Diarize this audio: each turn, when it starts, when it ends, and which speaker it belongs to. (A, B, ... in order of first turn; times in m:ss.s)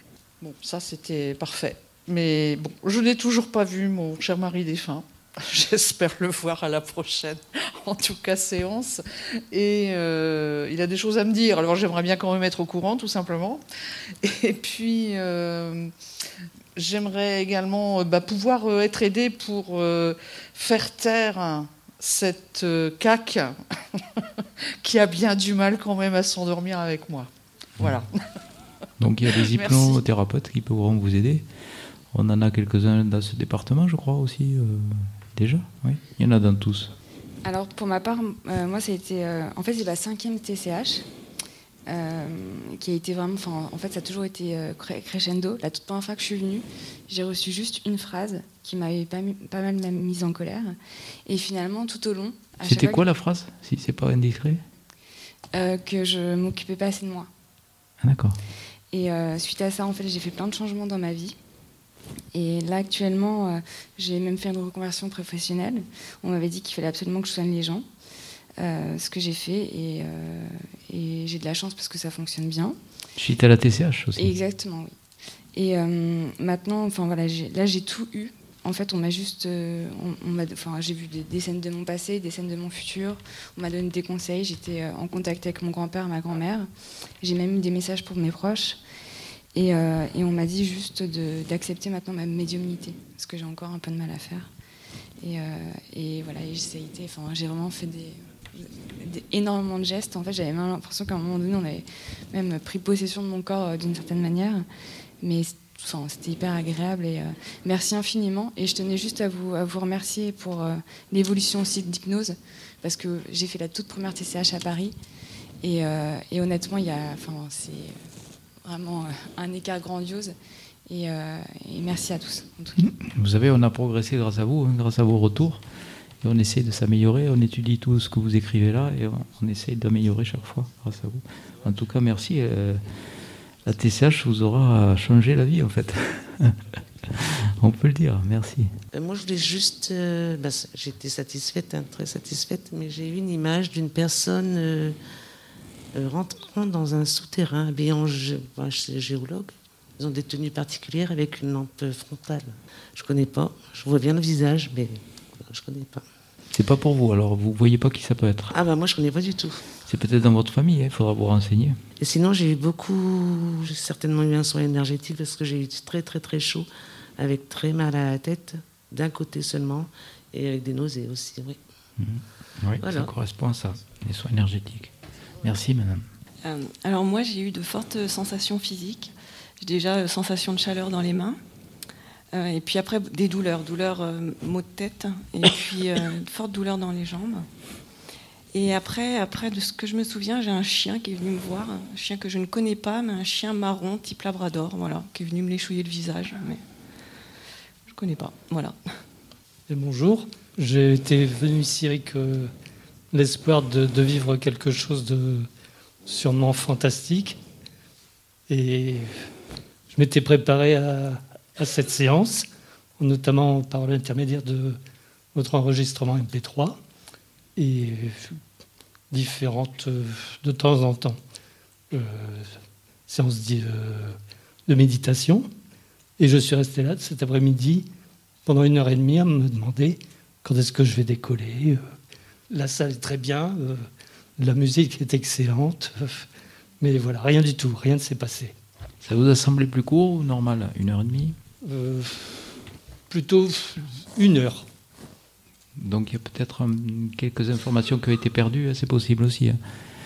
0:00.4-0:09.0 A
0:09.5-0:13.6 A
0:14.2-0:15.9 A
0:16.8-0:23.5 A
0:24.8-0:27.3 A
0:29.0-0:31.5 B
0:29.5-0:30.0 A
0:32.1-0:36.9 B
0:37.4-0:41.0 C
0:41.9-0:50.7 C
0:51.3-0:53.0 C
0:52.6-0:54.6 B
0:55.5-0:57.3 C
0:58.0-0:58.4 B
0:58.9-1:01.4 C
1:02.3-1:07.8 C
1:08.6-1:12.8 C
1:13.2-1:14.3 B
1:14.2-1:14.9 C
1:15.6-1:26.7 C
1:27.2-1:28.8 C
1:29.6-1:34.5 C
1:35.2-1:44.6 C
1:45.2-1:54.9 C
1:55.6-1:58.0 C
1:58.6-2:00.3 C
2:00.9-2:02.9 C
2:02.8-2:05.6 B
2:06.2-2:12.8 B
2:13.7-2:16.5 B
2:17.1-2:18.7 B
2:18.9-2:25.0 D
2:25.9-2:36.0 D
2:36.5-2:38.5 B
2:38.5-2:39.6 D
2:39.8-2:41.8 B
2:42.0-2:46.7 D
2:47.2-2:51.6 D
2:52.0-2:54.9 B
2:52.8-2:53.1 D
2:55.4-2:56.0 B
2:56.4-2:59.0 E
2:59.6-3:01.3 E
3:02.3-3:07.4 E
3:08.5-3:16.6 E
3:17.9-3:18.7 E
3:19.7-3:22.5 F
3:23.1-3:25.5 F
3:26.1-3:27.4 F
3:28.5-3:29.2 F
3:29.9-3:32.5 F
3:33.0-3:34.8 F
3:35.3-3:36.8 F
3:37.6-3:38.4 F
3:39.1-3:41.2 F
3:41.9-3:42.6 F
3:43.1-3:45.5 F
3:46.2-3:47.9 F
3:48.4-3:51.9 F
3:52.5-3:56.3 F
3:56.8-3:58.5 F
3:59.0-4:01.4 B
4:01.6-4:02.5 F
4:03.1-4:04.7 F
4:05.8-4:09.6 B